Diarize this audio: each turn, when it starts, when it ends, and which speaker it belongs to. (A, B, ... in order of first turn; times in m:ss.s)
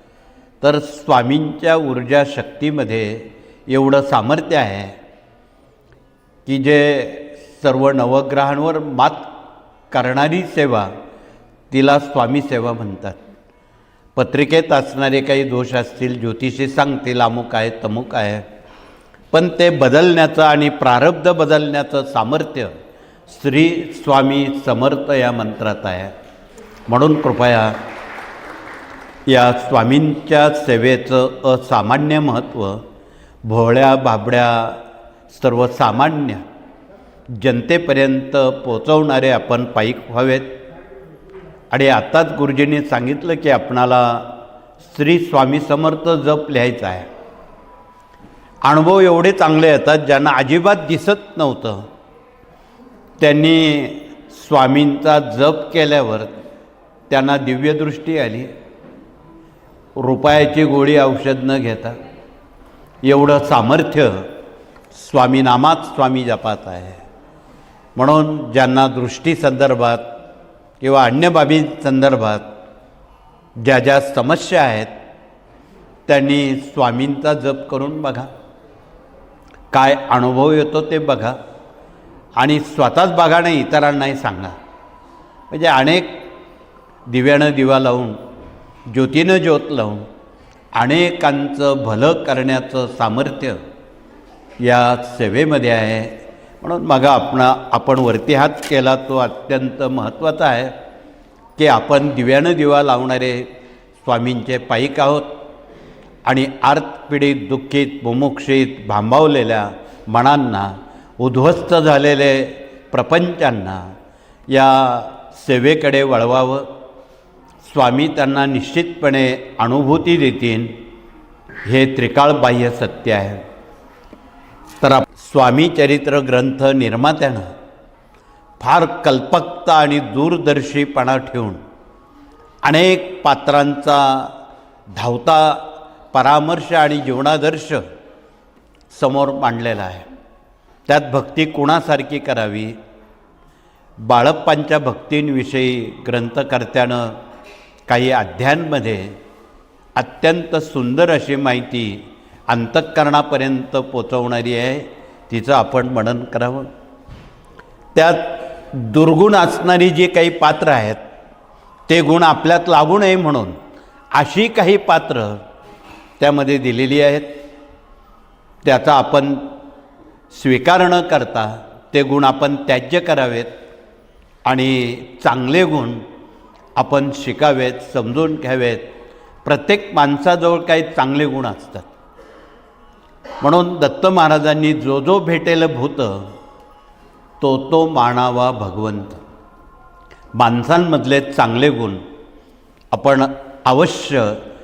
0:00.6-0:05.0 A
0:06.5-0:09.3 A
0:09.9-0:10.9 A
0:11.7-0:13.2 A
0:14.2-0:18.4 A
0:19.3-0:22.8 A
0:23.3-0:26.1 A
0:26.9-0:27.8 A
0:29.3-0:32.8 A
0:33.4-0:36.4 A
0:37.3-0:40.6 A
0:41.7-0:47.1 A
0:48.6-0:51.9 A
0:53.2-0:56.3 A
0:57.1-0:58.5 A
1:00.0-1:02.0 A
1:03.0-1:04.3 A
1:04.9-1:07.0 A
1:08.0-1:10.1 A
1:10.8-1:12.5 A
1:13.6-1:14.9 A
1:16.1-1:18.3 A
1:19.7-1:21.4 A
1:22.4-1:24.6 A
1:25.5-1:26.2 A
1:27.1-1:28.2 A
1:28.9-1:30.1 A
1:30.7-1:33.6 A
1:34.6-1:40.7 A
1:41.6-1:43.5 A
1:44.0-1:45.3 A
1:46.2-1:53.8 A
1:54.5-1:56.7 A
1:57.6-2:00.7 A
2:01.7-2:03.4 A
2:04.8-2:07.5 A
2:08.6-2:11.6 A
2:12.6-2:14.3 A
2:14.9-2:17.8 A
2:18.9-2:20.1 A
2:20.9-2:22.8 A
2:24.0-2:27.2 A
2:27.9-2:29.1 A
2:30.0-2:36.7 A
2:37.9-2:41.0 A
2:41.9-2:43.6 A
2:44.1-2:45.4 A
2:46.2-2:47.3 A
2:48.6-2:49.4 A
2:50.3-2:53.5 A
2:54.5-2:56.0 A
2:56.8-2:58.9 A
2:59.4-3:01.9 A
3:03.4-3:06.3 A
3:07.4-3:09.2 A
3:10.4-3:12.0 A
3:12.9-3:14.4 A